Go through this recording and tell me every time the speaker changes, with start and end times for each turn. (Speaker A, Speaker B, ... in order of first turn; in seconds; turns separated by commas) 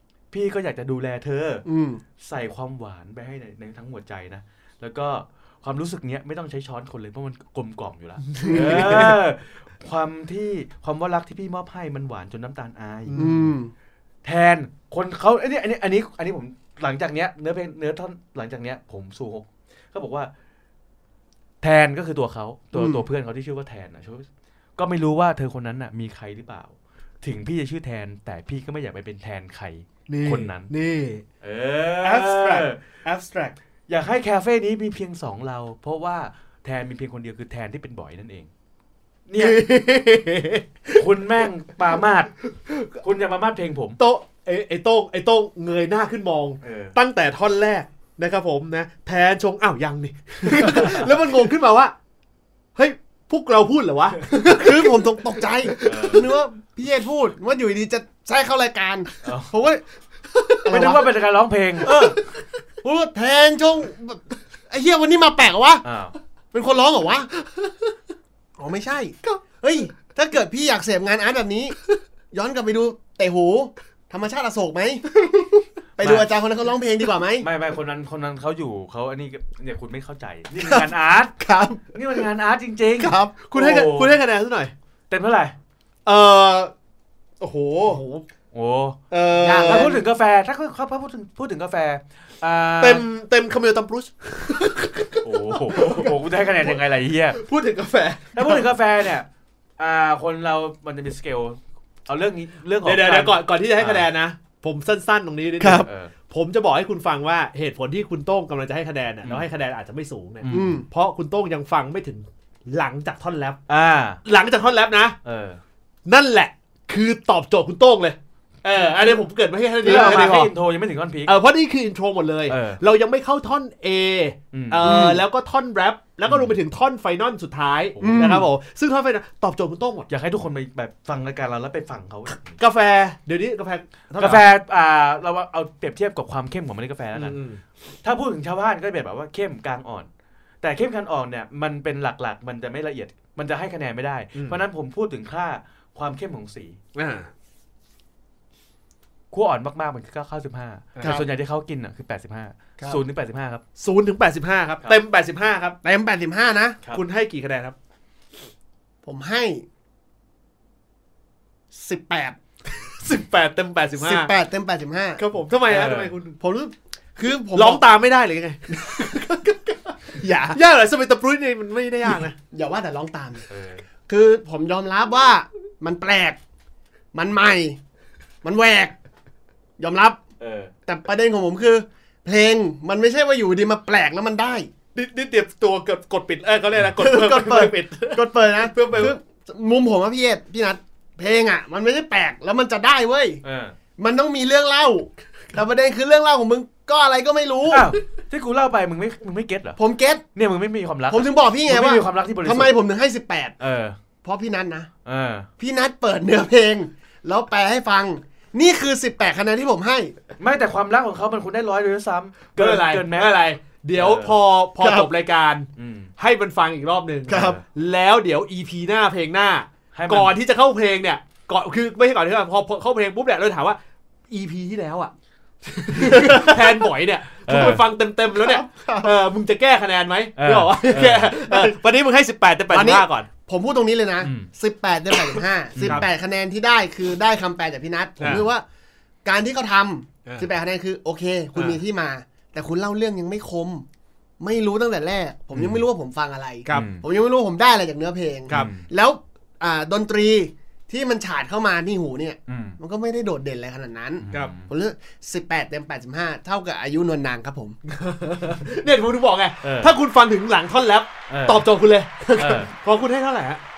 Speaker A: 0.3-1.6, Speaker B: 1.6-2.0, Speaker A: 2.2-13.4, Speaker C: 8.3-9.1, Speaker B: 8.4-9.0, Speaker C: 13.1-13.5, Speaker B: 13.2-13.7, Speaker A: 14.2-20.3, Speaker A: 21.6-30.7, Speaker B: 22.7-23.0, Speaker C: 30.1-31.2, Speaker A: 31.4-32.8, Speaker C: 32.0-33.5, Speaker A: 33.9-38.5, Speaker A: 39.3-39.6, Speaker C: 39.4-40.6, Speaker A: 40.9-42.3, Speaker C: 42.6-42.9, Speaker A: 43.0-44.0, Speaker C: 44.0-51.9, Speaker A: 46.6-47.0, Speaker A: 50.6-51.0, Speaker C: 52.8-56.2, Speaker B: 54.3-59.8, Speaker A: 55.8-56.3, Speaker A: 59.2-59.5, Speaker B: 60.4-61.1, Speaker A: 60.7-62.1, Speaker B: 61.8-65.8, Speaker C: 61.9-62.1, Speaker A: 65.8-66.1, Speaker B: 66.5-67.3, Speaker B: 68.6-71.8, Speaker B: 72.3-77.5, Speaker A: 76.0-76.3, Speaker A: 77.4-81.3, Speaker B: 80.6-80.9, Speaker B: 81.4-81.9, Speaker A: 81.9-84.2, Speaker B: 83.0-83.3, Speaker C: 83.4-84.7, Speaker A: 85.1-85.5, Speaker C: 86.0-86.7, Speaker C: 87.4-88.2, Speaker A: 88.5-93.0, Speaker C: 89.1-90.0, Speaker B: 89.4-89.9, Speaker C: 92.8-96.8, Speaker A: 95.2-97.4, Speaker C: 97.3-98.7, Speaker A: 98.3-99.3, Speaker A: 99.8-104.1, Speaker C: 102.8-113.6, Speaker B: 105.6-105.9, Speaker A: 105.7-106.1, Speaker A: 110.4-110.8, Speaker B: 110.5-110.9, Speaker A: 113.7-114.2, Speaker C: 114.2-115.2, Speaker A: 115.2-115.6, Speaker C: 116.0-120.5, Speaker A: 119.8-121.4, Speaker B: 119.9-120.3, Speaker C: 121.2-130.1, Speaker A: 122.5-122.8, Speaker A: 124.5-125.1, Speaker B: 124.8-125.2, Speaker A: 126.3-126.5, Speaker A: 128.0-128.4, Speaker B: 128.0-128.5, Speaker A: 130.1-132.5, Speaker C: 132.5-134.4, Speaker A: 134.2-137.4, Speaker C: 137.1-137.6, Speaker A: 138.0-140.1, Speaker A: 140.6-146.8, Speaker C: 144.3-144.6, Speaker C: 146.9-147.3, Speaker A: 149.3-153.6, Speaker C: 150.9-151.2, Speaker C: 153.8-155.8, Speaker B: 155.8-156.8, Speaker C: 156.9-157.8, Speaker B: 159.0-159.6, Speaker B: 161.7-162.4, Speaker C: 162.8-164.3, Speaker B: 164.0-165.2, Speaker C: 165.2-166.4, Speaker A: 165.7-166.1, Speaker B: 166.4-167.9, Speaker C: 167.5-169.6, Speaker B: 168.7-169.5, Speaker B: 170.0-170.6, Speaker C: 170.4-172.4, Speaker B: 172.5-173.4, Speaker A: 173.5-173.8, Speaker B: 174.1-176.4, Speaker B: 177.1-177.8, Speaker B: 178.4-178.9, Speaker B: 179.8-180.2, Speaker A: 180.4-180.7, Speaker B: 180.8-184.7, Speaker C: 184.9-189.1, Speaker B: 187.0-193.4, Speaker A: 193.4-193.8, Speaker B: 194.0-197.9, Speaker A: 197.7-199.8, Speaker B: 199.8-200.2, Speaker A: 200.3-202.7, Speaker B: 201.1-203.5, Speaker A: 203.6-204.0, Speaker B: 204.2-204.9, Speaker A: 205.0-205.5, Speaker B: 205.6-210.1, Speaker A: 210.4-213.4, Speaker C: 212.6-223.8, Speaker A: 213.9-214.4, Speaker B: 214.8-215.1, Speaker A: 215.8-216.1, Speaker B: 217.3-217.6, Speaker A: 217.3-217.6, Speaker A: 219.9-220.3, Speaker C: 224.3-225.1, Speaker C: 225.7-233.3, Speaker A: 227.4-227.8, Speaker B: 228.4-229.1, Speaker A: 230.4-231.3, Speaker B: 231.4-231.8, Speaker B: 232.7-238.6, Speaker A: 234.2-234.5, Speaker C: 235.3-236.1, Speaker A: 235.8-236.0, Speaker C: 238.2-238.5, Speaker B: 239.2-243.8, Speaker C: 241.5-241.8, Speaker B: 244.4-257.8, Speaker A: 246.7-247.0, Speaker A: 248.5-248.9, Speaker A: 252.5-252.8, Speaker A: 254.2-254.7, Speaker C: 257.9-263.6, Speaker A: 259.6-259.9, Speaker A: 261.3-261.6, Speaker A: 262.4-262.7